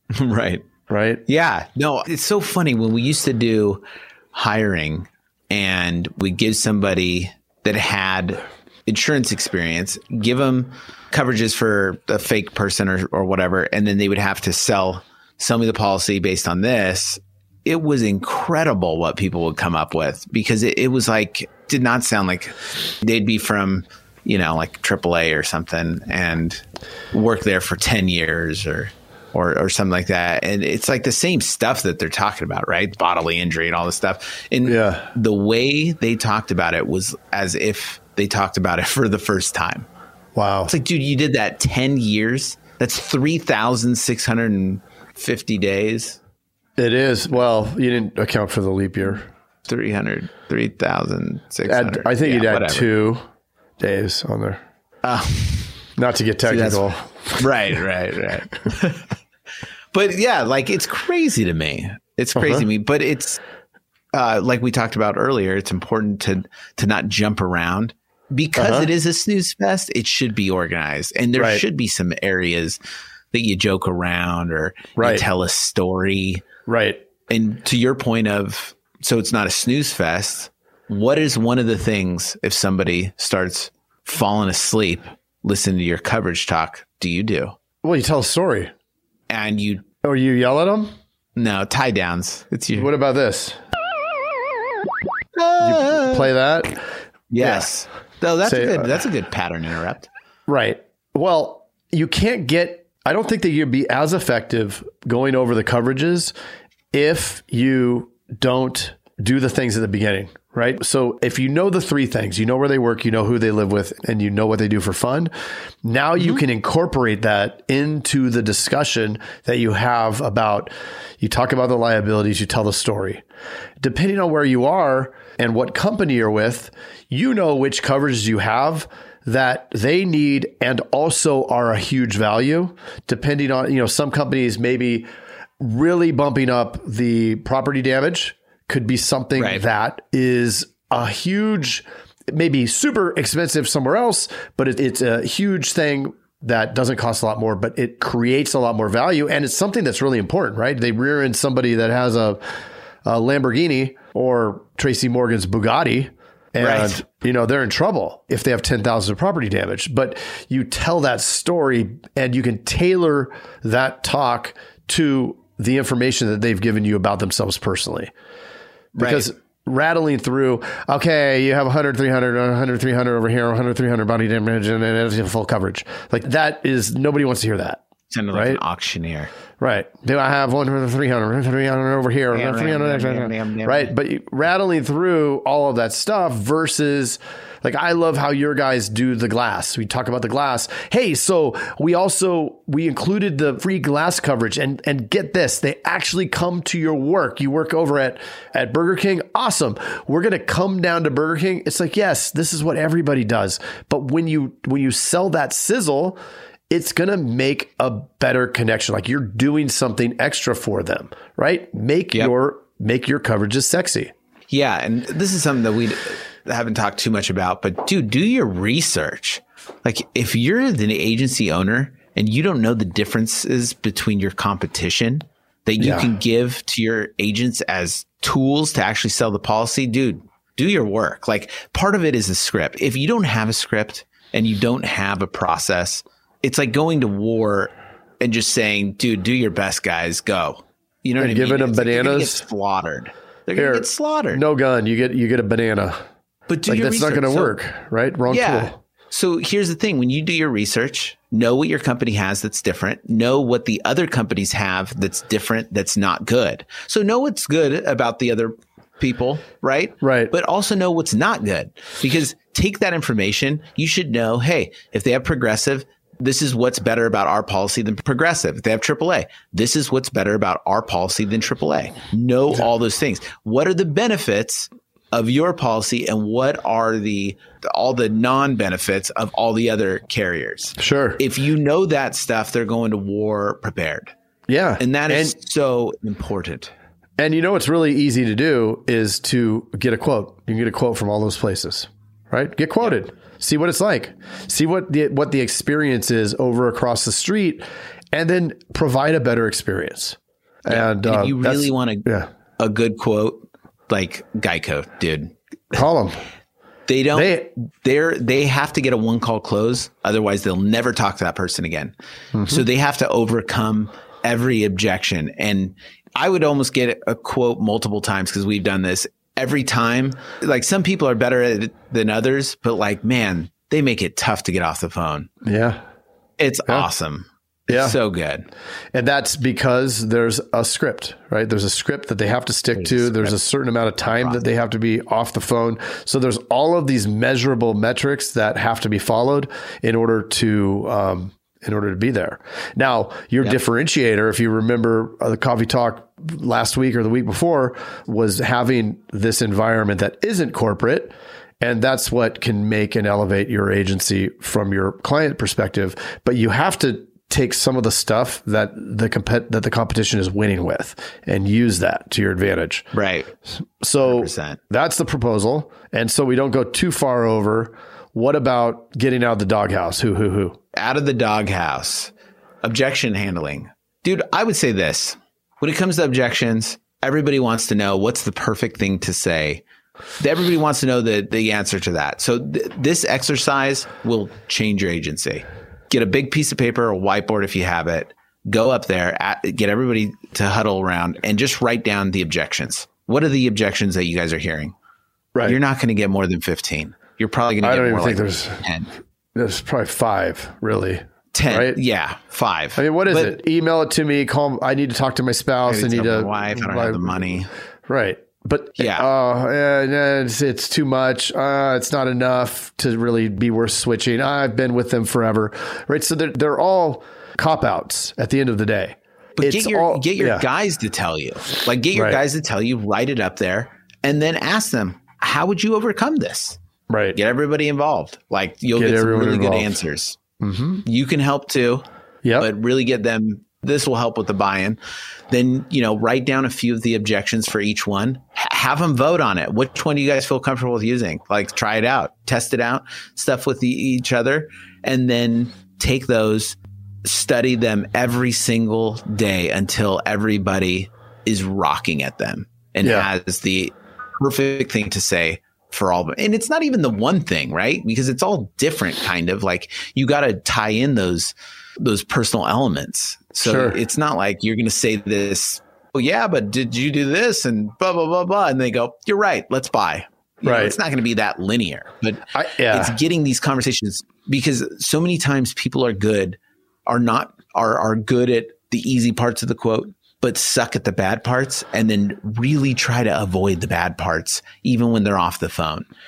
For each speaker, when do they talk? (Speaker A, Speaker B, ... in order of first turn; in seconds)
Speaker A: 0.1-0.7, 1.3-39.9, 40.7-46.2, 49.6-52.9, 55.0-55.8, 56.4-59.1, 59.9-63.4, 64.1-72.8, 73.3-76.4, 77.3-87.5, 89.3-89.8, 91.3-92.9, 95.3-96.3, 97.3-100.1, 139.3-139.6, 156.6-157.0, 168.9-169.3, 178.1-179.3, 182.3-183.9, 214.5-244.4, 246.5-247.5, 248.3-284.1, 284.8-286.7, 300.7-302.1, 302.6-305.3, 306.9-311.9, 312.5-325.3, 326.4-328.5, 332.7-333.3, 334.2-334.4, 362.9-363.3, 364.0-364.6, 370.7-379.6, 380.2-394.7, 395.4-398.9, 401.3-403.4, 405.6-407.5, 408.8-409.1, 419.4-426.6, 427.1-430.2, 430.8-431.8, 432.4-485.9
Speaker B: 0.9-1.2, 34.6-35.1, 40.3-40.7, 46.8-49.3, 51.6-53.2, 53.8-54.6, 56.0-57.7, 62.4-62.7, 68.6-68.9, 71.4-71.6, 75.0-75.2, 76.7-77.0, 87.8-88.7, 90.0-90.9, 92.7-93.6, 95.6-96.8, 97.4-97.7, 98.4-99.0, 100.5-106.3, 106.9-115.3, 115.8-123.2, 123.8-135.1, 135.6-152.4, 153.0-168.1, 169.0-178.6, 179.6-206.2, 206.7-214.1, 225.8-226.1, 241.2-242.5, 243.5-246.0, 246.7-248.8, 260.0-260.3, 280.8-281.2, 284.5-285.4, 287.2-302.3, 305.7-306.2, 307.1-307.5, 312.3-312.6, 325.4-325.8, 327.7-328.0, 328.9-362.9, 363.6-370.6, 397.6-398.6, 399.3-401.8, 402.8-420.5, 421.9-422.2, 426.9-427.2, 428.7-429.8, 430.4-430.8, 452.8-453.1, 463.4-463.8, 470.4-470.8, 472.3-473.0